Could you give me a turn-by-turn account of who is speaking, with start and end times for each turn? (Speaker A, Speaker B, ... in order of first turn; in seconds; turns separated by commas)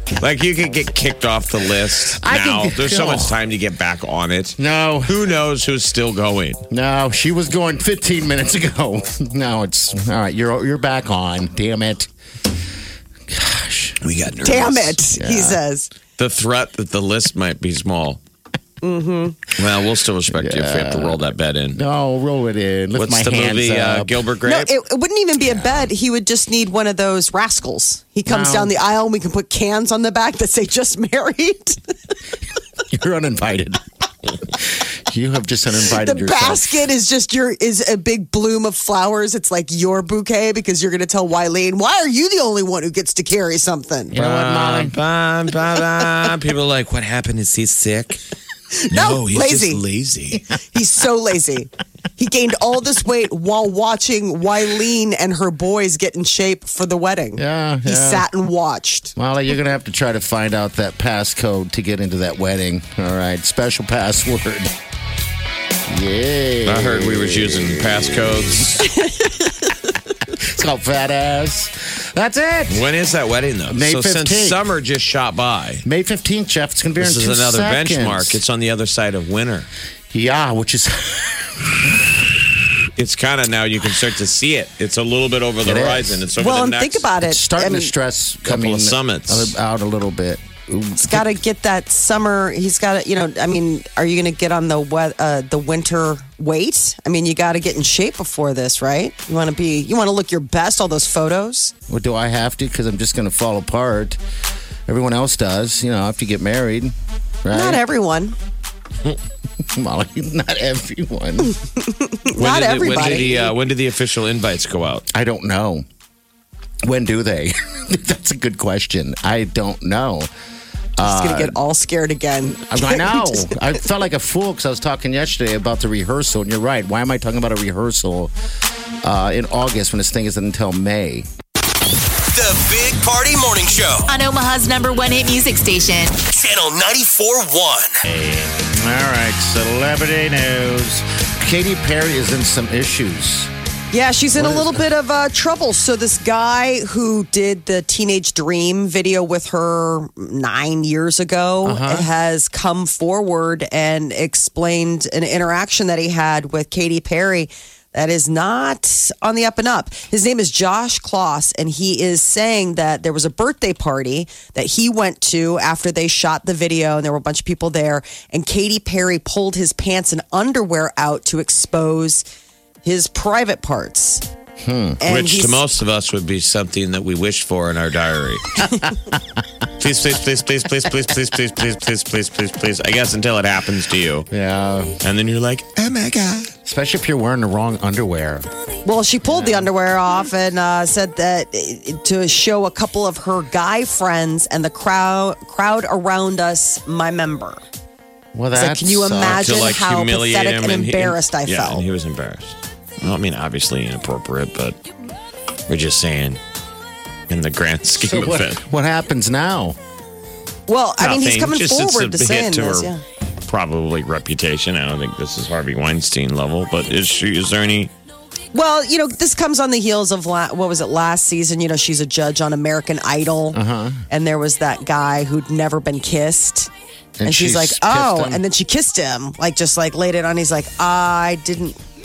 Speaker A: 0.2-6.6, Speaker B: 2.1-3.4, Speaker B: 4.6-5.2, Speaker B: 6.7-12.1, Speaker B: 13.3-14.0, Speaker A: 14.0-15.0, Speaker C: 14.4-15.9, Speaker B: 15.2-15.6, Speaker A: 16.2-18.2, Speaker C: 18.8-19.4, Speaker A: 19.6-21.8, Speaker B: 20.3-24.2, Speaker A: 22.9-24.7, Speaker C: 24.4-31.8, Speaker B: 28.3-28.8, Speaker B: 32.9-36.9, Speaker C: 35.8-44.1, Speaker B: 44.1-45.0, Speaker A: 44.1-48.2, Speaker C: 48.8-49.8, Speaker A: 48.9-50.4, Speaker C: 50.6-59.1, Speaker B: 57.4-58.3, Speaker B: 59.1-64.8, Speaker B: 65.9-68.8, Speaker A: 66.7-69.0, Speaker B: 70.3-72.8, Speaker A: 72.7-75.8, Speaker B: 73.7-74.6, Speaker B: 75.8-78.4, Speaker A: 77.0-79.7, Speaker B: 80.1-82.6, Speaker A: 83.0-87.1, Speaker B: 85.6-86.3, Speaker C: 86.4-87.9, Speaker B: 87.2-91.3, Speaker A: 88.4-89.5, Speaker C: 91.0-101.7, Speaker B: 101.9-104.2, Speaker B: 104.9-107.8, Speaker C: 107.5-108.4, Speaker B: 109.6-111.6, Speaker C: 111.8-113.5, Speaker A: 112.4-115.0, Speaker B: 115.1-115.8, Speaker B: 116.9-120.3, Speaker B: 121.0-121.6, Speaker C: 121.0-123.6, Speaker B: 122.5-128.3, Speaker B: 129.0-131.3, Speaker D: 132.3-134.1, Speaker E: 134.1-136.1, Speaker D: 136.2-137.9, Speaker B: 138.1-143.5, Speaker C: 143.9-172.2, Speaker B: 144.3-144.9, Speaker B: 151.6-152.1, Speaker C: 172.8-174.2, Speaker B: 174.6-175.0, Speaker C: 175.0-175.6, Speaker A: 175.0-178.6, Speaker B: 178.8-179.1, Speaker A: 179.8-184.3, Speaker B: 184.3-185.0, Speaker A: 185.0-186.5, Speaker B: 186.6-188.5, Speaker C: 188.8-197.6, Speaker B: 189.3-189.7, Speaker B: 198.3-199.5, Speaker C: 198.6-201.8, Speaker A: 199.2-204.8, Speaker A: 205.7-206.4, Speaker A: 207.3-208.6, Speaker B: 207.9-209.8, Speaker C: 210.7-213.0, Speaker A: 211.0-212.9, Speaker A: 213.5-217.9, Speaker C: 218.5-226.7, Speaker B: 223.5-224.1, Speaker B: 227.2-228.4, Speaker C: 227.2-231.8